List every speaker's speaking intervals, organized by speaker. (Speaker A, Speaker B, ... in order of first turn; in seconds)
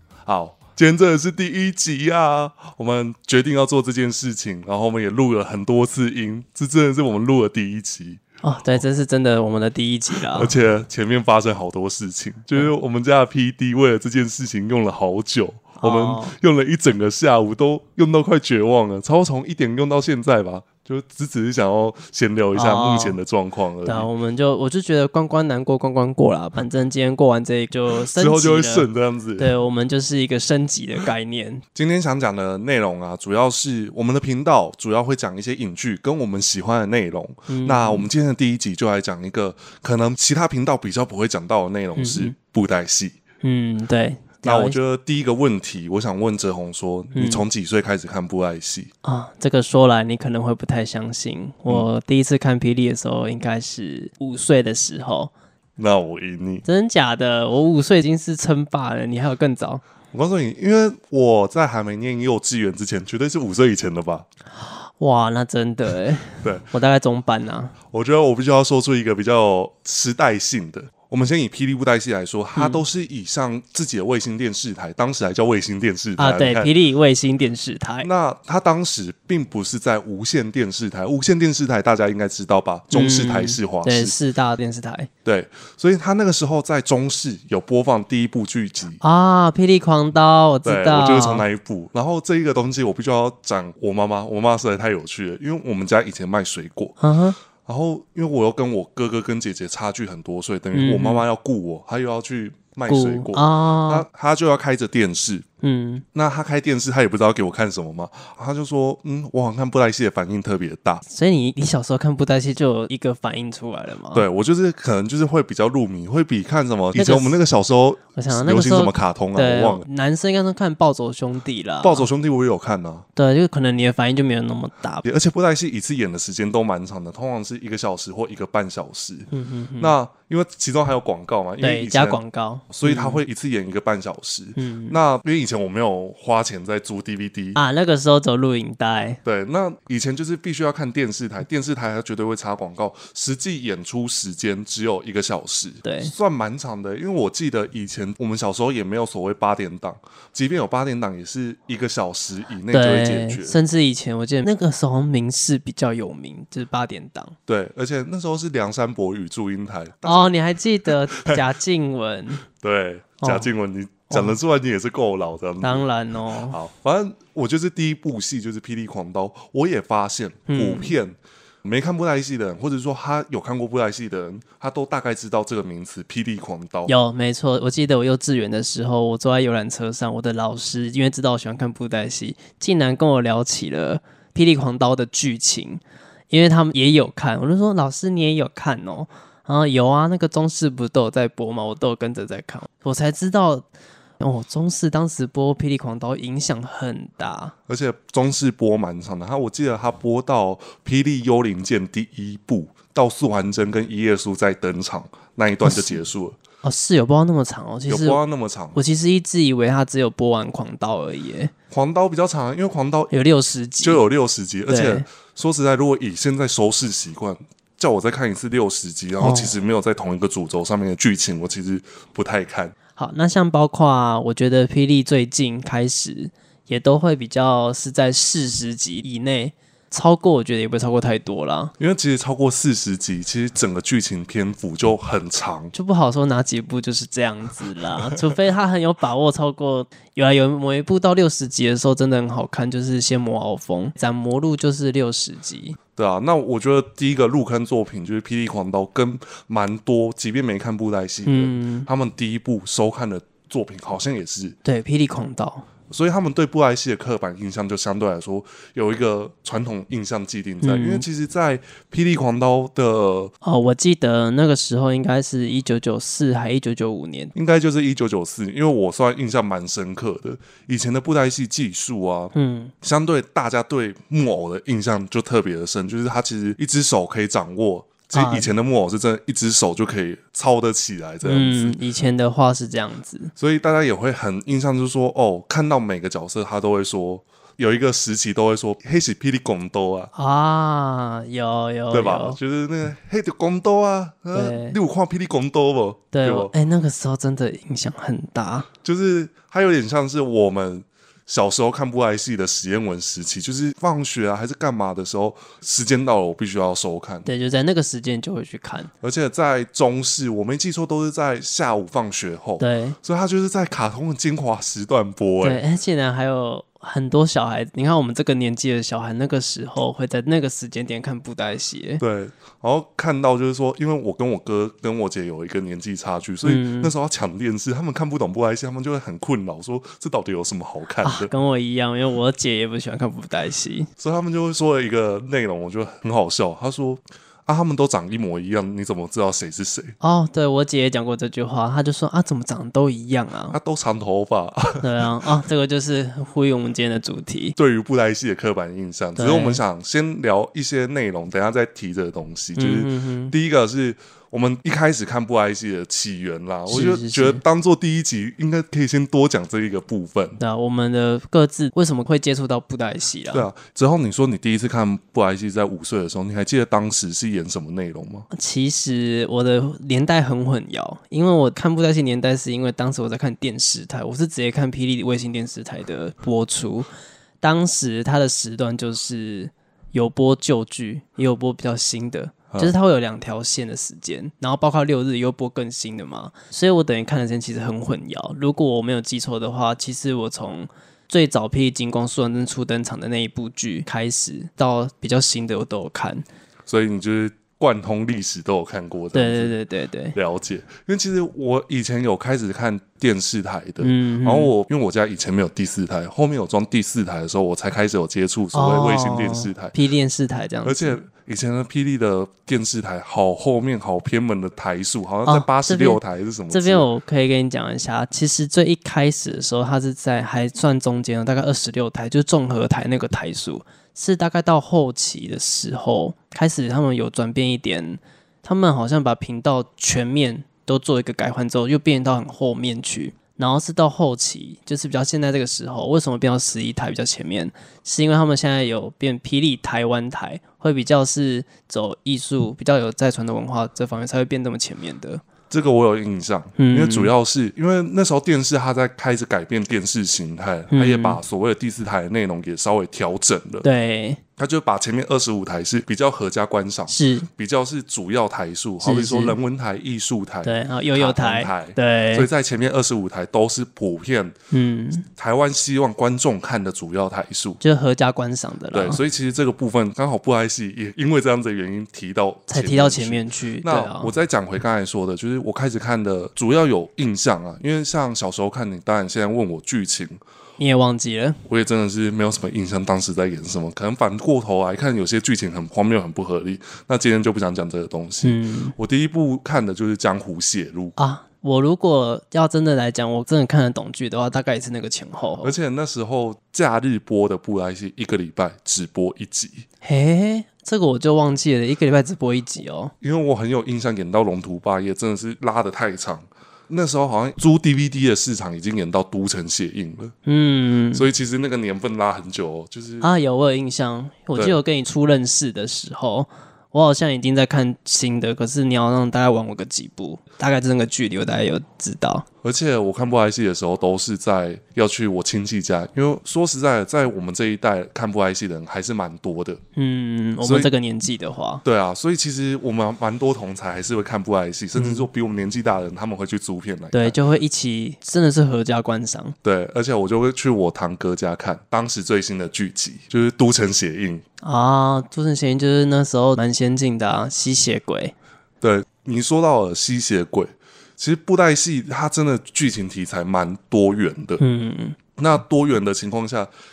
Speaker A: 0.3-8.8, 10.2-24.1, 28.1-29.5, 31.8-43.2, 44.4-48.9, 55.8-56.7, 60.1-64.3, 67.9-76.7, 78.0-84.2, 85.2-89.0, 90.7-97.0, 97.6-105.5, 106.1-111.0, 114.1-119.8, 121.8-123.0, 125.0-132.2, 132.7-137.6, 139.2-153.6, 157.5-160.3, 160.9-161.4, 162.5-165.9, 166.5-176.9, 197.7-206.4, 207.9-208.8, 211.7-213.1, 213.8-222.8, 231.8-235.7, 245.9-254.6, 255.9-263.3, 267.3-281.8, 283.4-290.1, 291.9-296.5, 298.8-307.3, 309.0-315.6, 322.0-331.3, 334.0-339.9, 343.5-345.1, 347.6-360.4, 363.3-368.3, 382.5-382.8, 396.7-399.6, 400.1-409.8, 410.6-416.9, 445.5-453.7, 454.4-464.4, 465.1-467.6, 468.7-480.2, 481.5-490.9, 495.4-499.6, 503.0-510.1, 510.9-513.1, 522.4-529.6, 530.4-530.7, 531.6-537.2, 539.4-544.2, 548.6-554.4, 555.2-556.5
Speaker B: 8.4-10.5, 15.8-16.4, 22.6-23.2, 23.9-28.9, 29.4-31.6, 37.5-38.1, 42.0-42.4, 43.4-44.8, 47.1-47.4, 49.0-55.3, 56.7-59.8, 64.5-67.7, 72.6-72.8, 76.2-78.1, 82.9-85.1, 89.0-91.4, 97.0-97.4, 100.7-101.2, 102.9-104.0, 105.6-106.0, 111.1-114.3, 117.0-117.4, 118.2-122.1, 123.2-125.1, 129.3-129.9, 131.6-133.2, 134.6-135.0, 137.6-139.2, 145.8-146.1, 152.7-157.3, 160.1-162.4, 163.2-163.5, 164.1-164.4, 165.6-166.6, 170.5-170.9, 176.9-193.7, 194.2-197.5, 205.6-206.0, 206.6-208.2, 208.7-211.5, 213.1-214.0, 214.7-215.1, 219.2-219.6, 223.0-231.7, 235.7-245.8, 251.3-251.9, 254.7-255.7, 260.6-261.1, 263.4-267.3, 272.3-272.7, 278.1-278.5, 281.2-283.3, 290.1-292.4, 294.3-294.8, 296.1-298.7, 307.2-308.9, 312.6-313.0, 315.4-322.0, 326.4-326.9, 331.0-333.9, 340.0-343.6, 344.8-347.6, 349.2-349.6, 352.6-353.3, 356.7-357.4, 360.4-363.5, 368.3-376.9, 377.4-396.2, 399.1-400.2, 403.8-404.5, 408.5-411.0, 415.3-416.0, 416.5-445.2, 446.6-447.1, 450.7-451.2, 453.6-454.2, 456.9-457.3, 458.8-459.4, 460.4-462.3, 464.5-465.1, 467.6-469.0, 472.5-474.1, 480.6-481.4, 488.2-488.8, 491.0-495.5, 499.8-502.9, 510.3-511.1, 513.0-522.2, 529.8-531.6, 534.8-535.1, 536.9-539.4, 544.4-548.1, 554.4-555.0